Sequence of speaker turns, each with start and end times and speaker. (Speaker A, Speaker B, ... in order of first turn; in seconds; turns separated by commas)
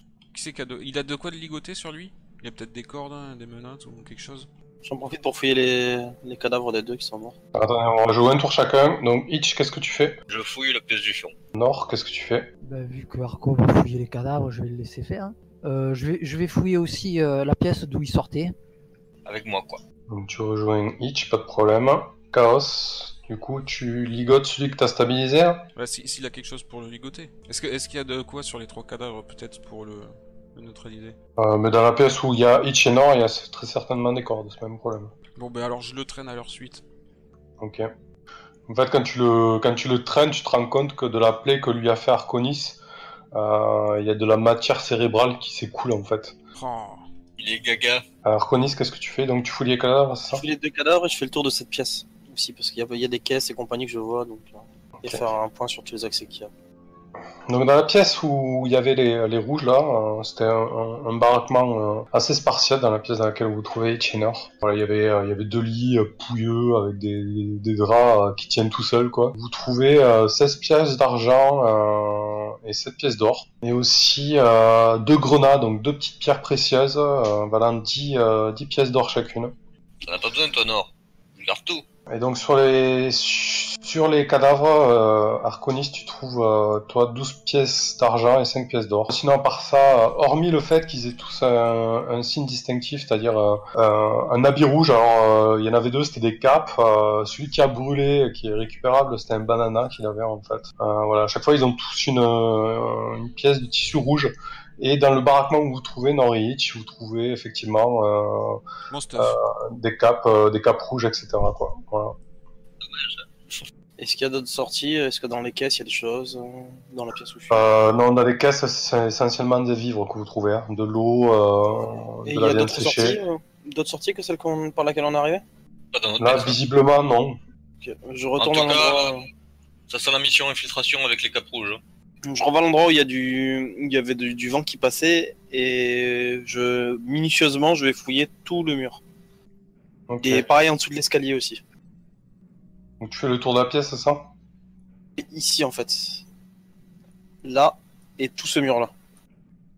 Speaker A: 0.3-4.5, Speaker B: 4.8-7.3, Speaker C: 7.5-10.2, Speaker D: 10.3-11.3, Speaker C: 11.5-12.5, Speaker E: 12.6-18.5, Speaker D: 19.2-19.8, Speaker C: 20.1-25.7, Speaker A: 25.8-31.1, Speaker C: 31.4-35.1, Speaker A: 35.4-36.8, Speaker C: 37.6-37.9, Speaker C: 38.7-42.8, Speaker C: 43.3-46.4, Speaker A: 46.5-47.1, Speaker D: 47.4-48.0, Speaker C: 48.2-50.5, Speaker B: 50.3-56.5, Speaker C: 55.0-55.3, Speaker C: 57.5-79.5, Speaker D: 80.0-81.8, Speaker C: 82.1-108.6, Speaker A: 108.9-109.4, Speaker C: 109.1-112.2, Speaker D: 112.8-113.6, Speaker B: 114.0-117.8, Speaker C: 117.5-123.2, Speaker B: 122.2-125.4, Speaker D: 125.9-126.6, Speaker C: 126.2-127.4, Speaker B: 127.8-129.3, Speaker D: 128.4-129.2, Speaker D: 129.9-131.8, Speaker B: 132.2-139.0, Speaker C: 140.1-140.5, Speaker B: 140.2-141.6, Speaker C: 143.0-144.3, Speaker B: 145.2-146.2, Speaker B: 147.4-148.9